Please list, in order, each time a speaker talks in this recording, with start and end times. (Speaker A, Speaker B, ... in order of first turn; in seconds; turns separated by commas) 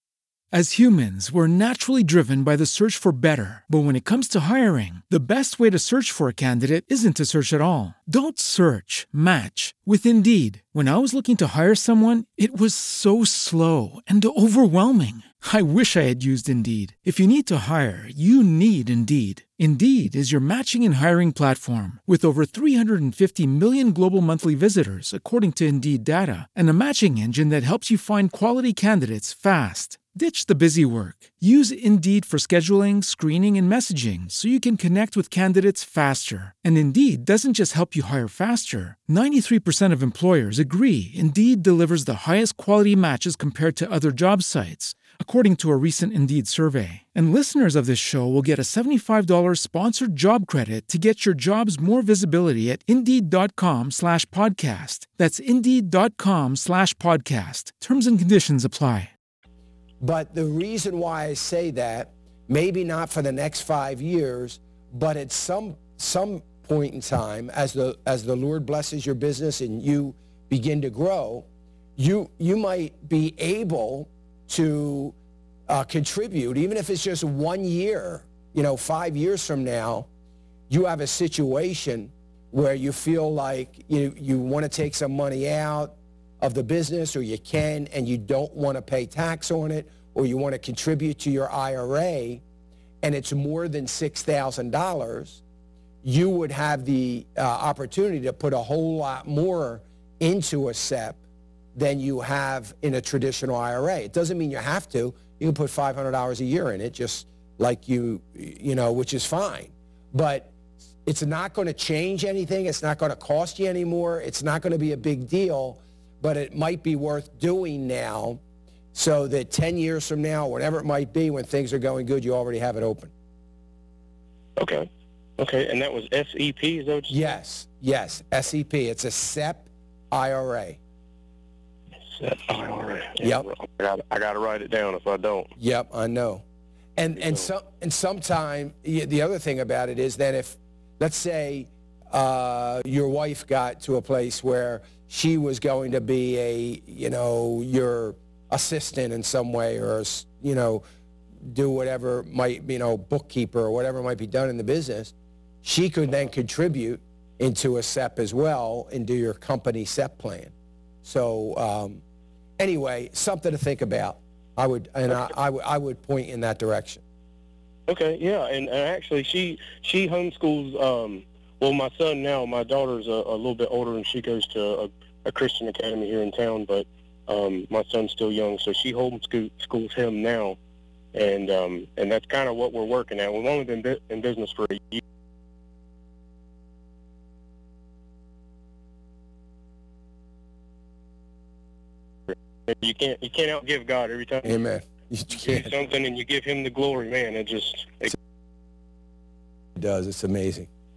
Speaker A: 0.5-59.1, Speaker B: 60.0-75.2, Speaker B: 75.7-80.1, Speaker B: 80.7-92.4, Speaker B: 93.0-95.4, Speaker B: 96.0-101.2, Speaker B: 101.8-110.5, Speaker B: 111.0-118.4, Speaker B: 118.9-123.1, Speaker C: 124.6-124.9, Speaker C: 125.4-127.4, Speaker B: 127.1-130.8, Speaker C: 132.2-135.5, Speaker B: 133.2-133.5, Speaker B: 135.6-136.4, Speaker B: 137.0-150.8, Speaker C: 137.2-137.4, Speaker B: 151.4-160.5, Speaker B: 161.0-162.0, Speaker B: 162.6-167.0, Speaker C: 167.9-180.6, Speaker C: 181.1-185.0, Speaker C: 192.7-194.6, Speaker B: 194.4-195.8, Speaker C: 195.4-198.1, Speaker B: 199.8-200.7